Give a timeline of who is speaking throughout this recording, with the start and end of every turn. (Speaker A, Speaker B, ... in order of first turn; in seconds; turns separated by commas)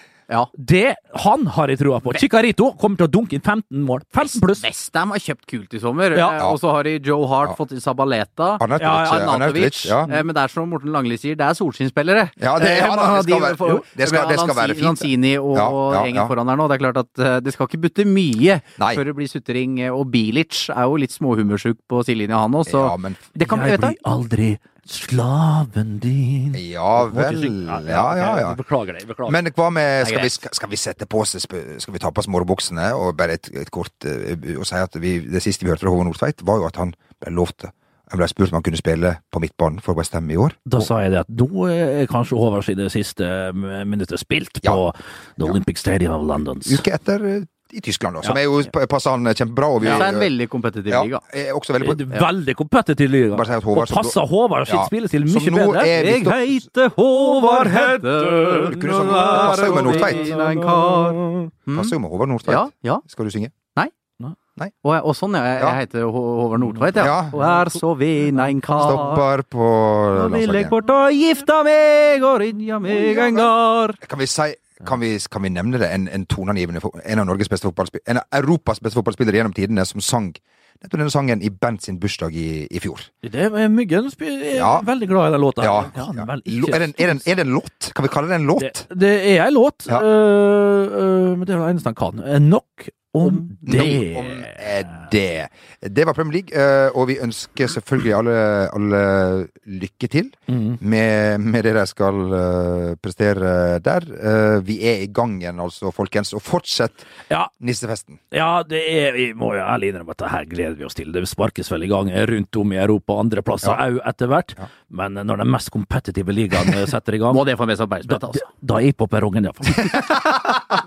Speaker A: 0.6-4.7, Speaker B: 4.2-24.0, Speaker A: 6.1-6.4, Speaker C: 8.6-10.1, Speaker A: 8.8-9.4, Speaker C: 12.4-16.3, Speaker C: 18.8-19.0, Speaker C: 22.7-23.2, Speaker A: 23.4-29.4, Speaker C: 26.5-28.6, Speaker C: 29.3-40.9, Speaker B: 30.0-30.4, Speaker A: 40.7-46.8, Speaker C: 46.6-50.3, Speaker B: 49.8-51.2, Speaker C: 50.9-52.0, Speaker A: 51.8-56.5, Speaker C: 53.3-56.7, Speaker B: 55.9-61.9, Speaker A: 57.0-61.5, Speaker C: 58.5-60.3, Speaker C: 61.7-63.5, Speaker B: 62.5-63.0, Speaker B: 64.8-69.2, Speaker A: 66.7-67.8, Speaker C: 67.0-67.3, Speaker A: 68.3-69.1, Speaker C: 68.8-70.8, Speaker A: 70.3-71.5, Speaker B: 70.7-73.7, Speaker A: 72.7-74.0, Speaker C: 74.0-83.1, Speaker A: 83.2-87.3, Speaker C: 84.5-84.9, Speaker C: 85.6-88.9, Speaker A: 88.6-94.7, Speaker B: 93.2-93.5, Speaker C: 93.6-107.1, Speaker A: 100.5-100.8, Speaker C: 107.6-108.2, Speaker A: 108.3-117.4, Speaker B: 117.3-118.5, Speaker A: 118.1-120.1